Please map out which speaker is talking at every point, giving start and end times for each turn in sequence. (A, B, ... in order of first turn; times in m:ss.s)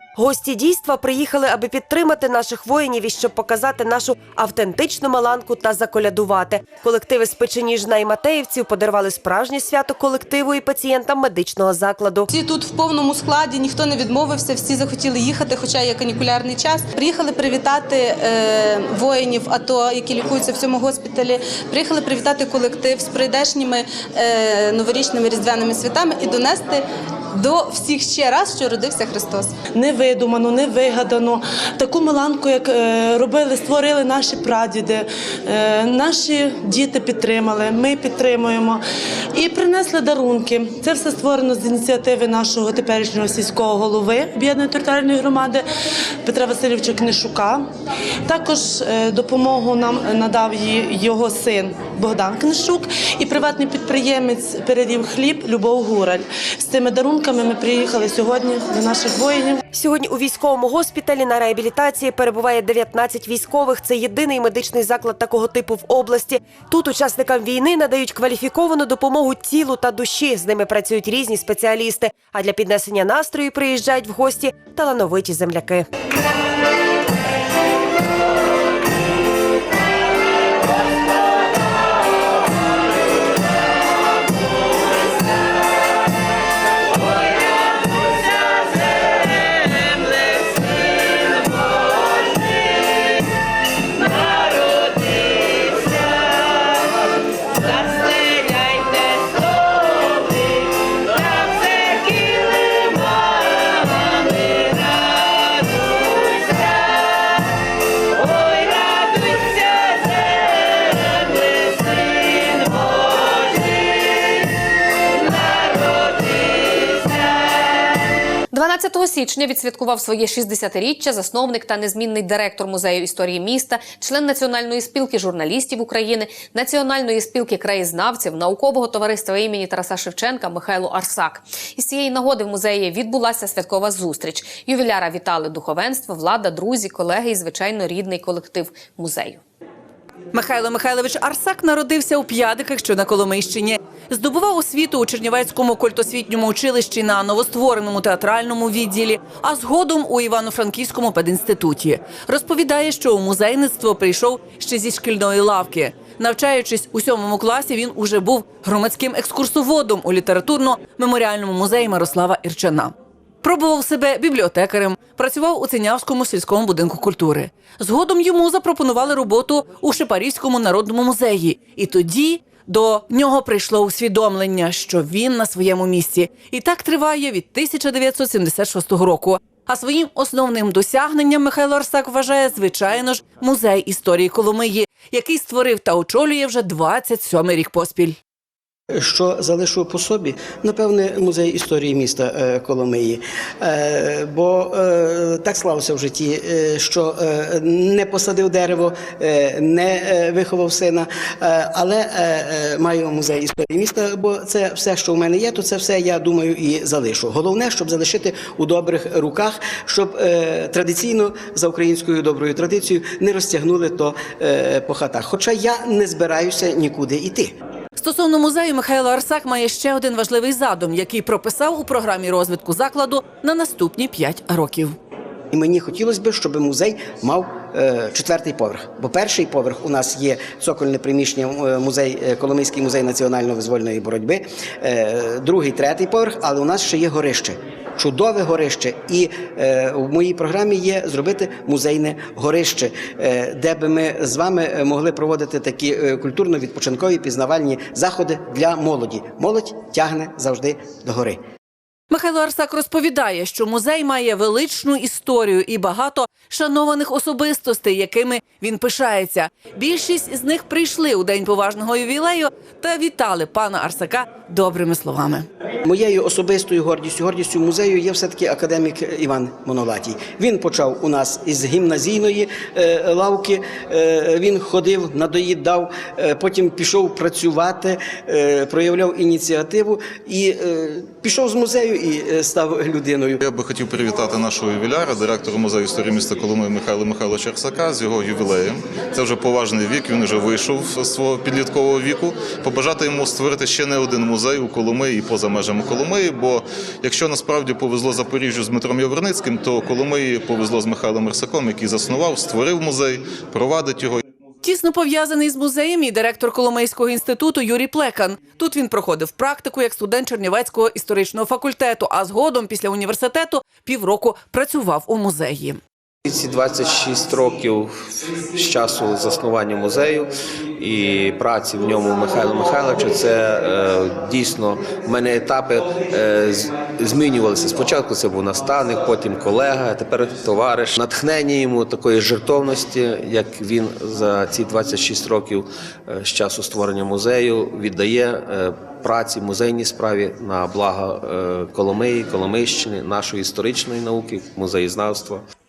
0:00.2-0:12.3 A
0:12.3-0:29.5 B
0:29.7-0:38.8 C
0:39.3-0:45.6 C
0:46.2-0:47.7 C
0:48.2-0:59.6 C
0:59.7-1:15.8 A
1:58.5-2:19.4 D
2:20.3-3:08.2 E
3:08.9-3:37.5 F
3:38.0-3:45.0 E
3:45.5-4:11.4 F
4:12.1-4:25.5 E
4:25.8-4:43.4 F
4:43.4-5:04.2 G
5:04.6-5:15.8 E
5:16.2-5:45.4 H